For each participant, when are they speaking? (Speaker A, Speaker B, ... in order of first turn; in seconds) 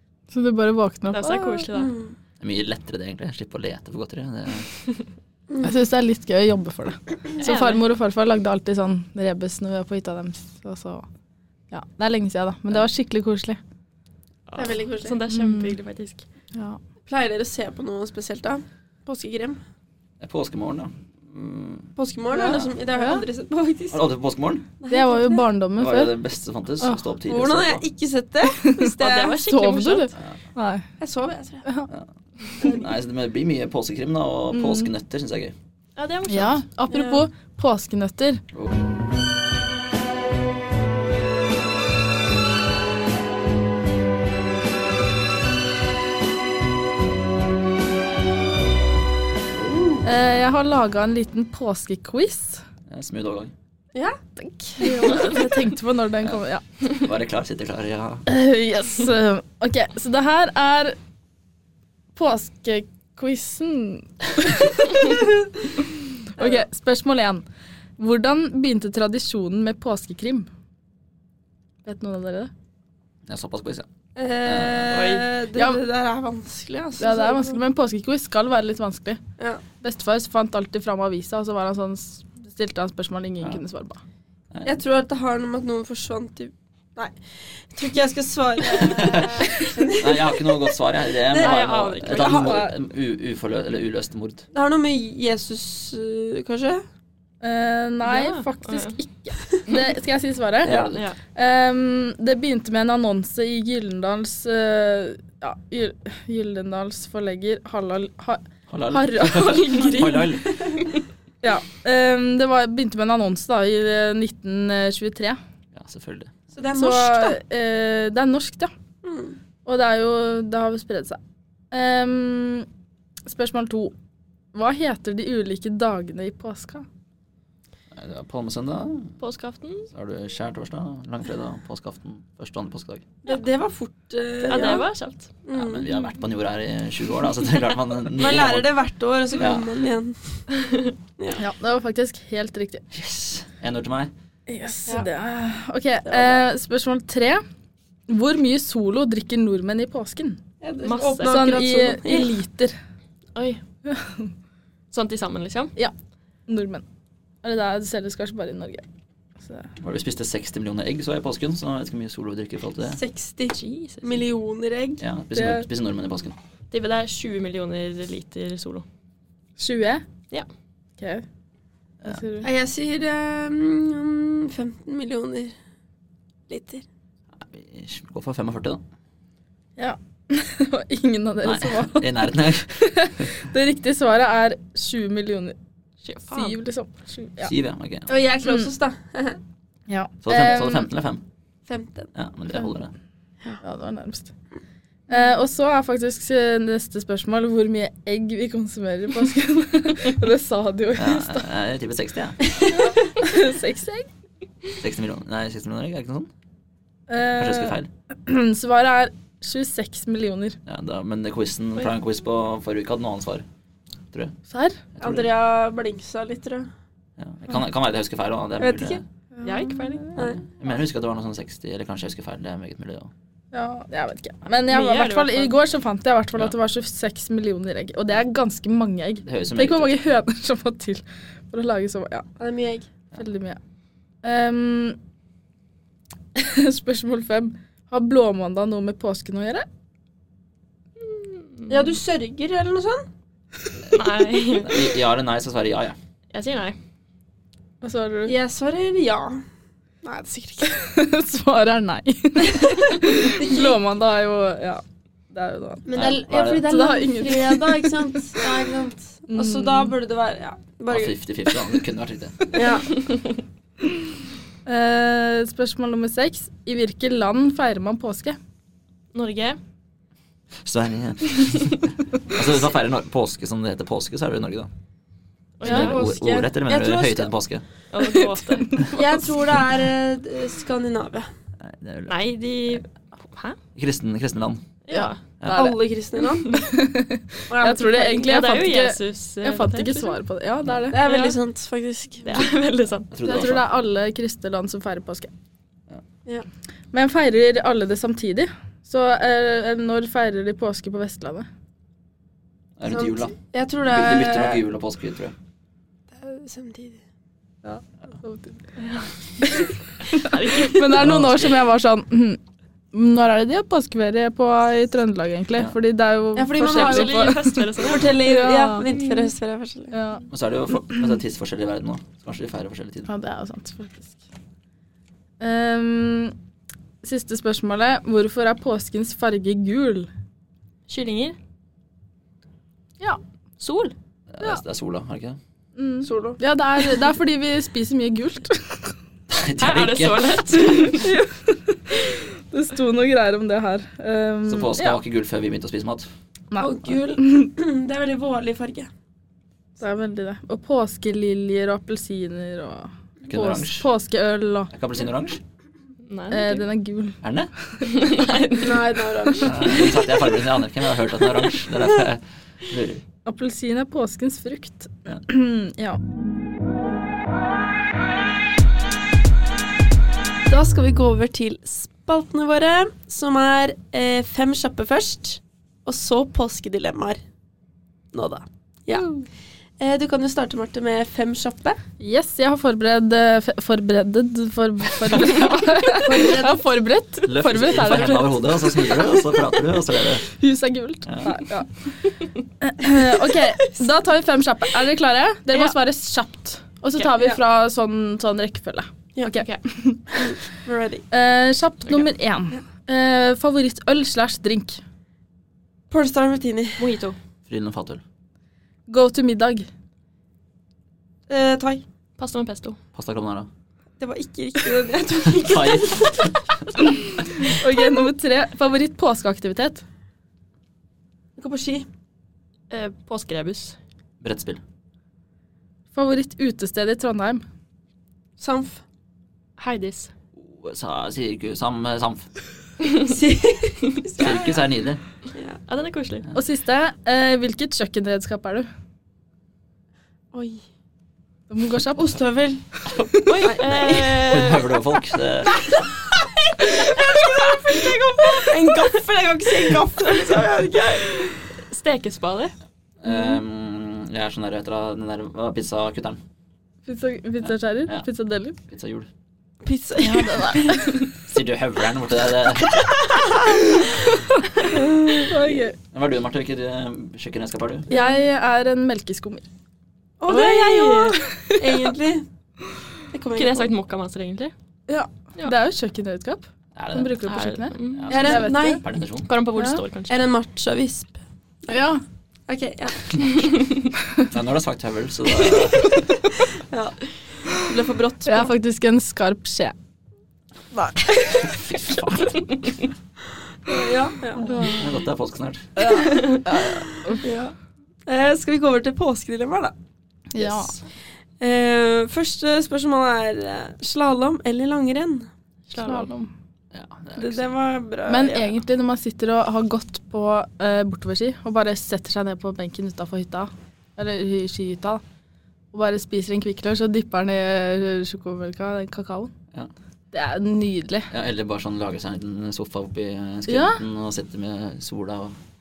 Speaker A: 0.3-1.6, 5.6-11.1, 11.7-13.6, 15.3-15.8, 16.5-16.8, 22.3-23.2, 24.9-26.1, 28.6-30.9, 31.6-31.9, 34.5-34.9, 36.3-38.4, 50.0-52.6, 54.4-56.6, 58.2-61.0, 62.1-65.1, 66.2-67.4, 68.0-70.5, 71.8-72.5, 75.5-75.8, 77.0-79.2, 79.8-84.0, 97.4-110.0, 111.4-115.4, 116.7-118.7, 119.6-121.2, 121.7-122.7, 123.2-123.9, 124.5-126.8, 141.3-142.8, 144.5-147.4, 148.1-150.4, 151.2-152.8, 153.9-154.3, 156.5-156.8, 157.4-158.9, 159.4-159.7, 165.3-165.7, 169.6-170.0, 171.0-171.2, 172.0-172.5, 179.8-185.6, 186.3-187.5, 189.9-190.9, 193.6-194.3, 195.1-201.5, 202.7-204.1, 207.1-210.6, 214.5-214.8, 219.3-219.9, 223.5-232.3, 233.1-233.6, 234.2-235.0, 236.3-239.7, 247.8-248.3, 250.7-256.0, 256.6-258.4, 259.3-259.9, 264.6-268.4, 278.0-279.0, 284.9-285.6, 286.5-291.0, 293.2-295.3, 296.9-301.5, 307.6-308.6, 309.4-312.4, 312.9-318.9, 319.9-320.2, 323.1-324.2, 325.4-326.3, 327.0-330.1, 335.8-338.9, 341.0-345.0, 346.5-347.5, 349.8-354.7, 356.3-357.9, 363.2-366.0, 382.0-388.5, 390.3-400.4, 401.1-404.8, 408.9-409.7, 417.4-419.8, 425.9-427.4, 436.3-438.7, 441.5-442.1, 456.9-458.6, 460.0-461.0, 465.1-465.8, 467.9-469.4, 471.4-471.9, 474.9-478.8, 479.5-479.8, 481.7-482.0, 488.2-489.7, 494.4-494.9, 495.8-497.2, 500.3-500.8, 505.8-506.3, 508.1-515.0, 515.7-519.3, 520.1-521.1, 523.5-523.8
Speaker B: 1.1-1.9, 7.4-7.8, 14.5-16.2, 29.0-30.1, 36.0-36.6, 74.9-75.2, 91.3-92.6, 98.0-99.0, 100.7-101.2, 109.2-111.0, 129.2-129.9, 134.5-135.3, 140.6-140.9, 150.8-151.6, 153.3-153.6, 154.9-155.7, 163.5-164.2, 166.7-168.8, 186.0-186.6, 219.4-220.0, 224.7-225.6, 241.0-241.9, 243.9-244.9, 246.3-246.8, 269.1-269.6, 275.6-276.0, 277.9-279.0, 282.1-283.6, 284.9-285.2, 287.8-290.2, 291.0-291.4, 292.2-293.1, 309.6-311.1, 316.6-318.2, 318.9-319.3, 330.9-331.4, 333.6-333.9, 339.6-341.1, 356.1-356.6, 357.8-359.5, 406.8-407.1, 412.2-412.8, 422.7-423.8, 429.6-430.1, 435.6-436.2, 443.2-444.7, 451.7-452.5, 470.3-471.2, 473.3-474.5, 477.2-478.2, 479.2-480.2, 505.7-506.1
Speaker C: 1.7-2.1, 14.6-15.2, 17.1-19.6, 21.9-24.0, 24.8-25.4, 27.3-29.4, 31.0-31.6, 32.6-32.9, 36.9-37.3, 49.5-50.0, 53.9-54.2, 54.8-55.4, 74.2-77.6, 84.6-92.7, 94.5-96.8, 116.5-117.4, 119.0-119.4, 133.2-134.8, 135.4-136.0, 138.1-140.2, 146.1-146.4, 150.6-152.3, 162.8-165.0, 172.4-175.5, 176.5-176.8, 188.1-189.4, 191.7-192.1, 215.0-216.7, 218.6-219.0, 232.4-232.9, 241.7-243.1, 248.2-249.4, 250.0-250.8, 253.1-253.8, 255.8-261.1, 262.5-263.0, 275.6-277.3, 278.9-281.3, 285.5-286.6, 287.5-288.1, 290.9-292.5, 302.9-304.6, 306.1-307.0, 316.4-319.9, 336.0-336.4, 346.6-348.9, 358.6-360.0, 370.4-377.2, 378.1-379.1, 379.8-381.8, 386.0-386.6, 393.3-393.7, 400.1-401.0, 405.9-406.8, 411.3-411.8, 414.0-416.3, 421.4-421.9, 428.4-428.8, 433.0-434.7, 440.3-440.6, 442.0-442.6, 443.4-444.4, 445.4-451.2, 459.6-461.0, 463.1-463.6, 470.2-472.2, 473.1-473.7, 478.1-478.8, 480.1-481.2, 482.5-483.6, 486.7-488.5, 491.2-491.5, 493.6-494.7, 495.8-496.5, 497.2-497.5, 498.1-499.7, 501.4-505.3, 507.2-508.6
Speaker D: 2.4-4.7, 20.2-22.7, 23.9-24.6, 25.8-27.8, 32.6-35.5, 38.5-38.8, 52.9-53.5, 56.2-58.2, 73.2-73.9, 74.4-75.1, 88.7-94.4, 100.6-101.0, 108.7-110.7, 115.7-116.4, 127.9-129.2, 129.9-133.0, 135.5-138.7, 139.3-139.7, 142.9-144.1, 159.8-163.0, 165.0-166.3, 177.4-178.8, 181.4-183.3, 187.4-188.1, 190.2-191.2, 192.1-192.9, 201.0-202.4, 204.8-206.3, 207.2-207.9, 210.7-213.4, 214.9-215.3, 217.2-219.0, 220.2-223.1, 229.2-229.9, 244.5-246.0, 255.9-256.7, 260.9-262.4, 270.6-274.7, 275.6-277.6, 281.6-282.1, 283.7-284.6, 285.4-285.8, 293.1-293.6, 302.8-305.3, 310.9-311.6, 320.3-323.1, 334.3-335.4, 339.3-340.7, 344.4-346.1, 353.2-353.9, 354.7-355.4, 357.2-357.5, 359.4-363.0, 387.2-390.3, 391.1-391.4, 407.5-408.0, 412.9-413.5, 415.3-416.4, 424.2-424.6, 430.4-432.3, 434.1-435.0, 443.8-445.6, 453.0-456.2, 457.4-458.1, 458.6-459.1, 461.2-462.9, 465.9-467.9, 476.7-477.2, 477.9-479.3, 484.3-486.0, 491.4-492.6, 494.7-495.9, 500.4-500.8, 506.7-507.5, 521.1-525.3